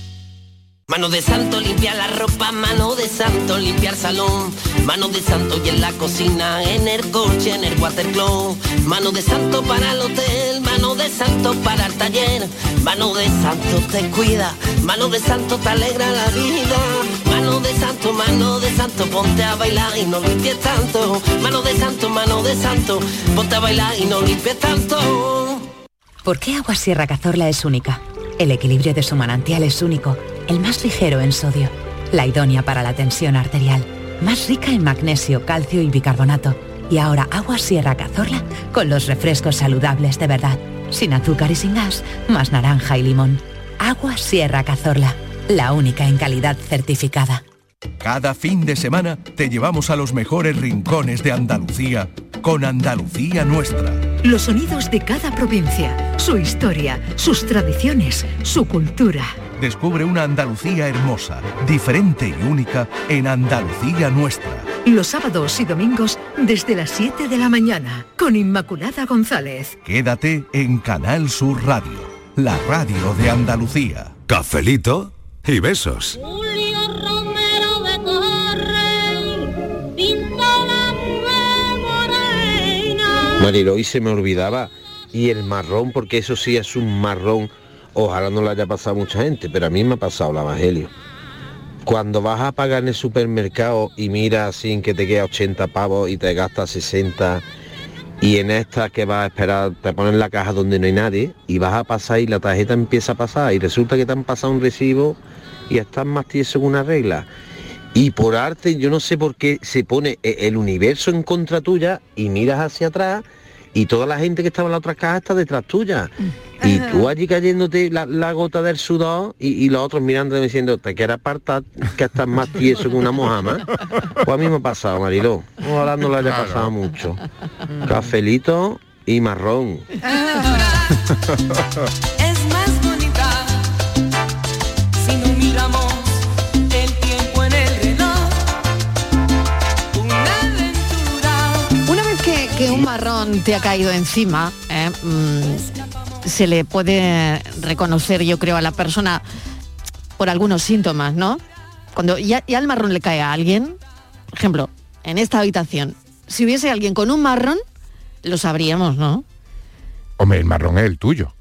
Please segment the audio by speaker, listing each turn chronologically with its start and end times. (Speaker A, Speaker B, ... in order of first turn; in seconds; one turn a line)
Speaker A: 0.9-25.7
Speaker B: 26.2-47.4
Speaker C: 48.0-54.1
Speaker D: 54.2-59.4
Speaker C: 59.6-64.7
Speaker D: 64.8-69.8
Speaker C: 69.8-76.2
Speaker E: 76.3-79.5
Speaker E: 80.0-81.6
Speaker F: 83.4-90.9
Speaker F: 91.8-97.4
Speaker F: 98.2-105.2
Speaker F: 105.7-107.3
Speaker F: 107.9-116.1
Speaker F: 116.6-123.6
Speaker F: 124.2-127.2
Speaker G: 126.2-126.7
Speaker F: 127.8-129.9
Speaker G: 131.1-131.6
Speaker H: 132.2-133.5
Speaker H: 135.0-136.1
Speaker H: 136.7-138.3
Speaker H: 139.9-141.6
Speaker I: 141.8-145.7
Speaker I: 146.2-149.2
Speaker I: 150.2-151.4
Speaker I: 151.9-153.8
Speaker I: 154.3-157.6
Speaker I: 158.2-159.2
Speaker G: 160.2-161.3